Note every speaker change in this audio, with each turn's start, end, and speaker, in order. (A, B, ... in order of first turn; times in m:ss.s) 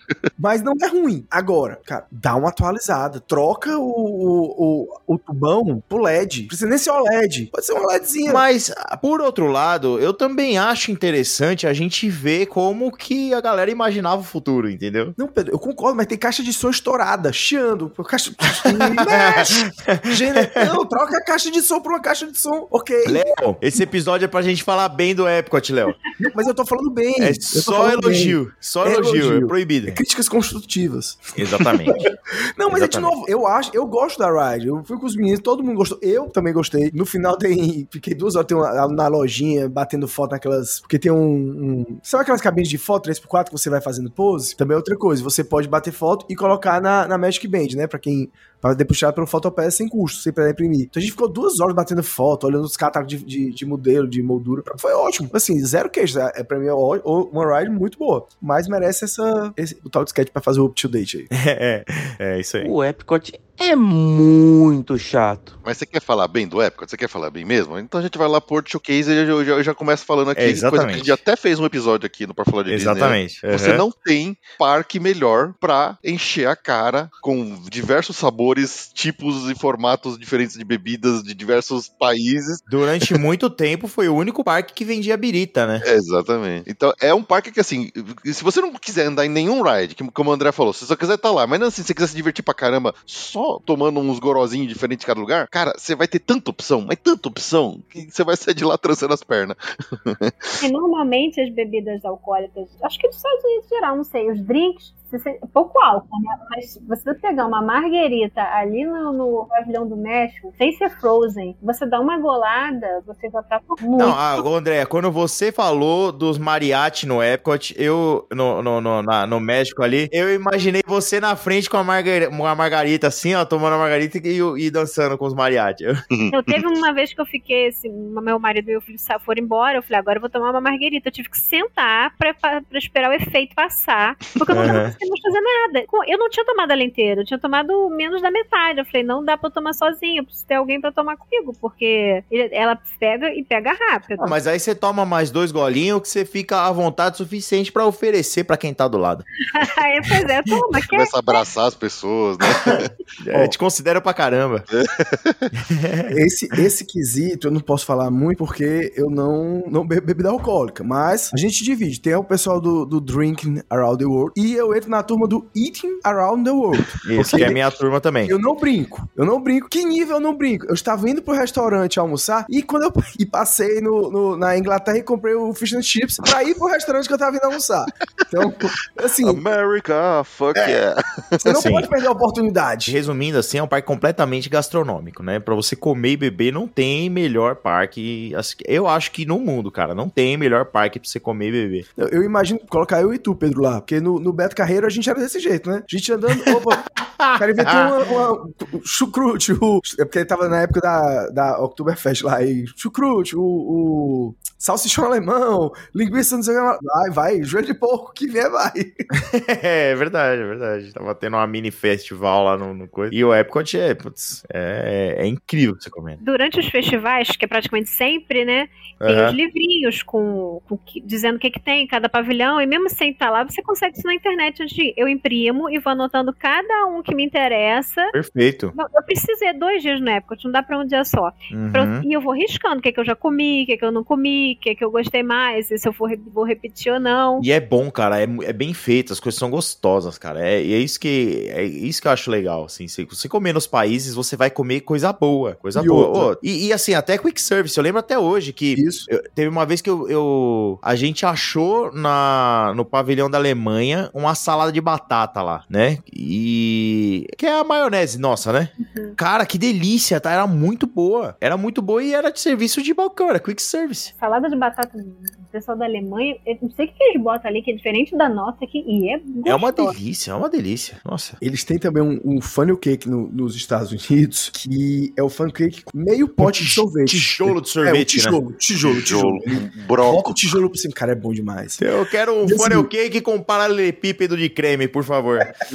0:00.4-0:08.4 A
0:08.3-0:15.2 B
0:15.2-0:23.3 A
0:19.0-0:20.7 B
0:23.0-0:26.0 B
0:26.2-1:01.3 A
0:27.2-0:30.0 B
0:31.4-0:32.1 B
0:32.7-0:33.1 B
1:01.3-1:02.7 B
1:02.6-1:05.6 C
1:05.6-1:23.1 D
1:10.3-1:11.2 B
1:12.7-1:13.8 B
1:22.7-1:25.8 B
1:25.8-1:40.6 D
1:40.6-1:54.4 E
1:53.9-2:05.9 B
2:06.1-2:06.6 D
2:06.3-2:24.4 E
2:14.5-2:14.9 B
2:24.2-2:29.3 B
2:29.5-2:31.4 E
2:30.9-2:32.9 D
2:32.6-2:34.6 B
2:34.7-2:35.5 D
2:35.6-2:36.1 B
2:36.1-2:47.6 A
2:47.0-2:48.3 B
2:48.2-2:59.4 A
2:59.2-3:01.4 D
3:01.4-3:03.0 A
3:01.5-3:01.9 B
3:02.9-3:11.9 B
3:12.0-3:16.8 A
3:16.4-3:17.9 B
3:17.4-3:29.0 A
3:29.1-3:36.2 B
3:36.2-3:48.1 E
3:39.0-3:39.4 B
3:48.1-3:48.7 B
3:48.7-3:57.4 E
3:51.5-3:52.0 B
3:57.4-4:24.1 B
4:05.7-4:06.3 A
4:08.7-4:09.1 A
4:18.8-4:19.2 E
4:24.1-4:30.0 E
4:29.4-4:31.4 B
4:31.4-4:41.8 A
4:36.4-4:38.4 B
4:38.8-4:40.4 D
4:41.8-4:45.5 B
4:42.4-4:42.9 A